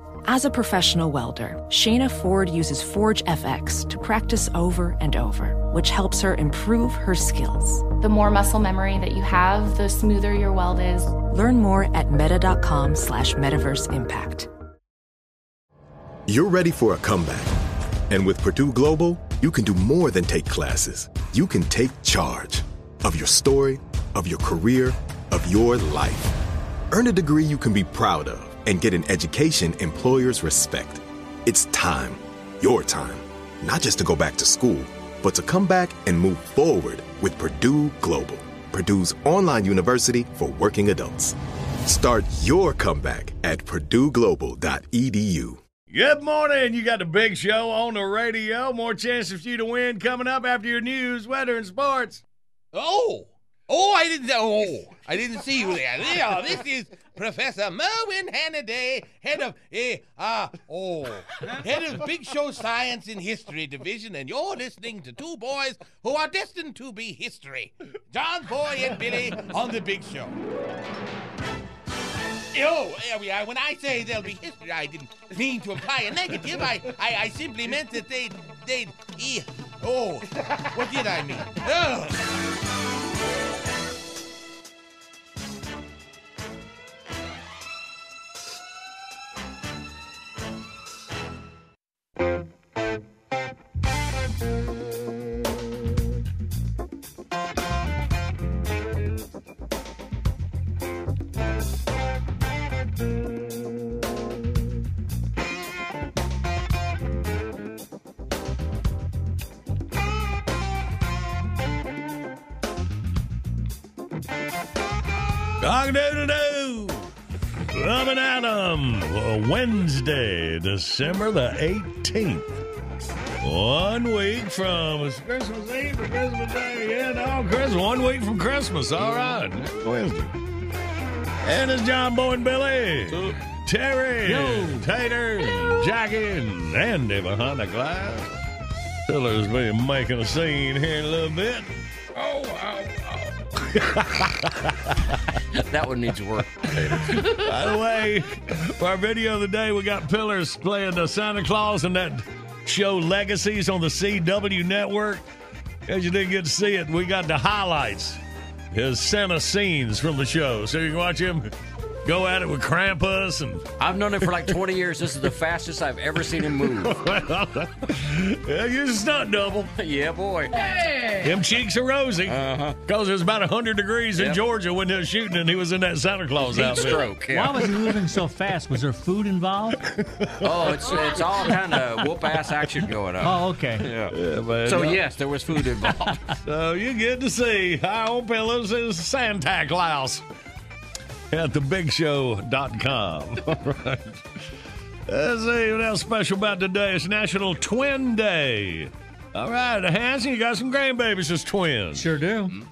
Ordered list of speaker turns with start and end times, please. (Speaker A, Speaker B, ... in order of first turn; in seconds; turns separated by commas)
Speaker A: 0.2-7.9, Speaker B: 7.9-11.2, Speaker A: 11.2-14.5, Speaker C: 16.3-17.6, Speaker C: 18.1-26.3, Speaker C: 26.9-45.6, Speaker D: 45.9-52.2, Speaker E: 52.7-70.3, Speaker E: 72.5-82.2, Speaker D: 115.6-117.1, Speaker D: 117.7-122.6, Speaker D: 123.4-130.2, Speaker D: 131.4-138.4, Speaker F: 134.2-134.8, Speaker D: 139.1-141.7, Speaker E: 142.2-143.0, Speaker D: 143.8-144.9, Speaker G: 145.6-147.2, Speaker D: 146.9-155.2, Speaker D: 155.9-158.2, Speaker D: 158.7-161.5, Speaker D: 162.0-163.7, Speaker G: 163.8-166.9, Speaker D: 164.2-164.6, Speaker D: 166.8-169.7, Speaker G: 169.8-170.6, Speaker D: 171.2-177.1, Speaker G: 172.3-172.8, Speaker G: 176.4-177.7, Speaker F: 177.3-179.8, Speaker G: 180.4-184.1, Speaker F: 183.2-183.8, Speaker D: 184.1-185.0, Speaker G: 184.6-186.2, Speaker D: 186.4-190.2, Speaker D: 191.3-194.2, Speaker D: 195.1-202.1, Speaker F: 201.9-202.6